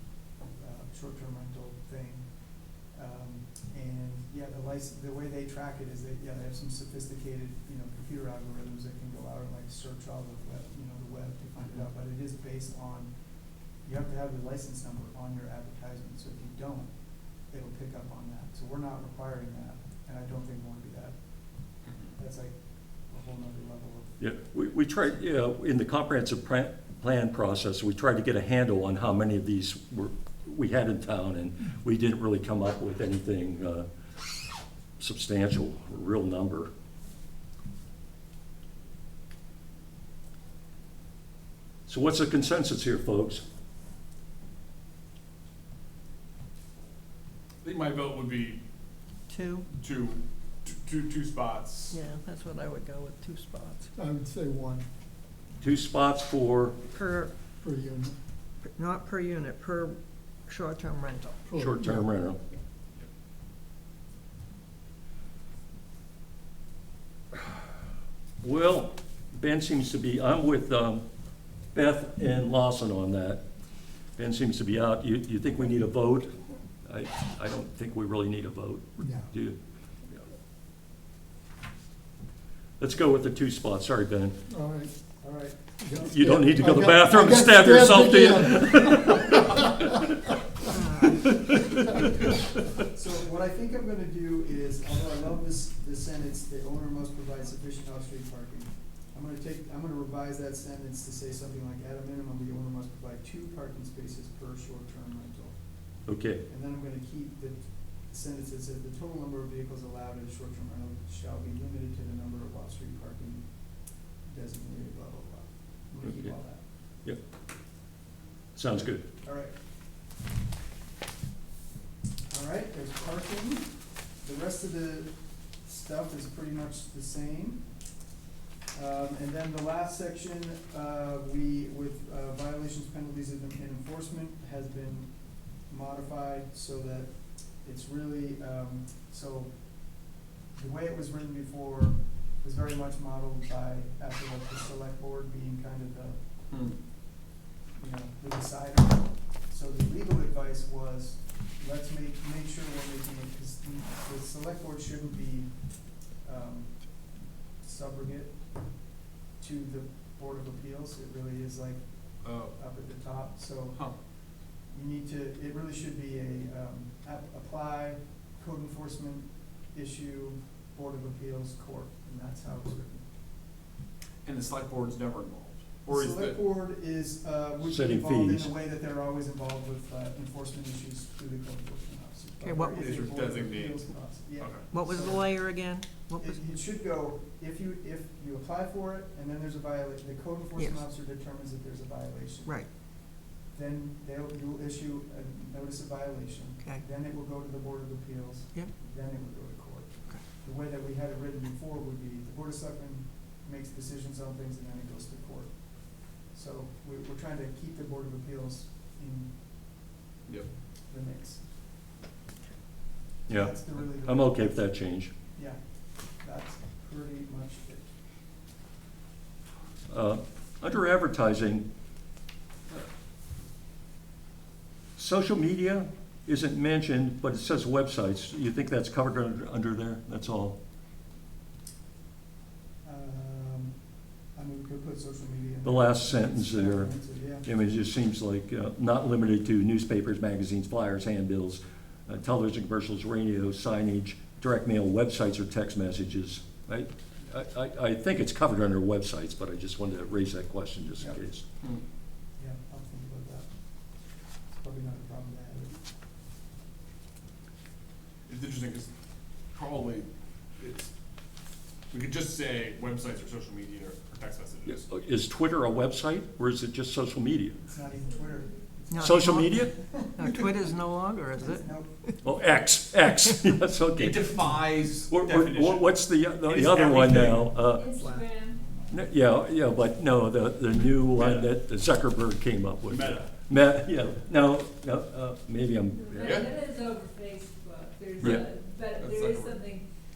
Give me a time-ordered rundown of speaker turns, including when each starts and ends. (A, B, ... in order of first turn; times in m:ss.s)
0:00.5-0:13.1 A
0:13.7-0:24.2 A
0:24.2-0:33.8 B
0:35.0-0:36.7 B
0:41.9-0:43.4 B
0:47.6-0:48.6 C
0:49.3-0:49.7 D
0:49.8-0:52.0 C
0:51.9-0:53.9 D
0:54.0-0:54.8 E
0:55.6-0:56.8 B
0:56.9-0:57.3 D
0:57.6-0:58.2 E
0:58.6-1:01.5 D
1:01.5-1:02.0 E
1:01.6-1:02.4 B
1:08.4-1:11.0 B
1:11.7-1:13.4 B
1:14.2-1:16.3 B
1:16.8-1:19.6 B
1:22.8-1:24.4 B
1:24.6-1:24.9 E
1:25.2-1:25.6 A
1:26.0-1:30.1 B
1:27.4-1:28.1 E
1:30.7-1:31.2 D
1:31.0-1:32.3 B
1:32.9-1:56.7 A
1:46.0-1:46.4 B
1:56.0-1:57.2 B
1:58.5-1:59.1 B
1:59.2-1:59.5 A
2:02.3-2:07.9 A
2:08.7-2:26.2 A
2:26.5-2:26.8 C
2:27.7-2:53.0 A
2:42.2-2:42.6 C
2:54.2-2:56.4 C
2:55.9-3:05.5 A
2:57.6-2:58.5 B
3:02.4-3:02.8 D
3:02.8-3:04.7 C
3:04.7-3:06.4 D
3:06.1-3:29.9 A
3:10.6-3:10.8 D
3:12.4-3:12.7 D
3:30.9-3:31.4 A
3:33.3-3:34.7 A
3:33.3-3:35.1 B
3:35.3-3:37.9 A
3:39.9-3:41.6 B
3:45.0-3:50.6 B
3:52.8-3:53.8 A
3:54.3-3:57.5 A
3:55.6-4:11.4 B
4:12.4-4:13.6 A
4:14.5-4:15.8 A
4:18.3-4:18.9 C
4:19.5-4:20.9 C
4:21.9-4:24.8 C
4:24.7-4:27.6 B
4:27.6-4:30.4 A
4:28.0-4:28.6 F
4:28.9-4:32.2 D
4:29.0-4:29.8 B
4:30.2-4:30.5 C
4:31.3-4:32.0 A
4:32.2-4:37.9 B
4:34.0-4:37.5 C
4:37.7-4:38.6 F
4:38.0-4:39.1 A
4:38.9-4:46.5 B
4:41.1-4:41.5 C
4:42.9-4:43.3 C
4:45.9-4:49.8 F
4:46.2-4:46.5 C
4:48.2-4:49.6 C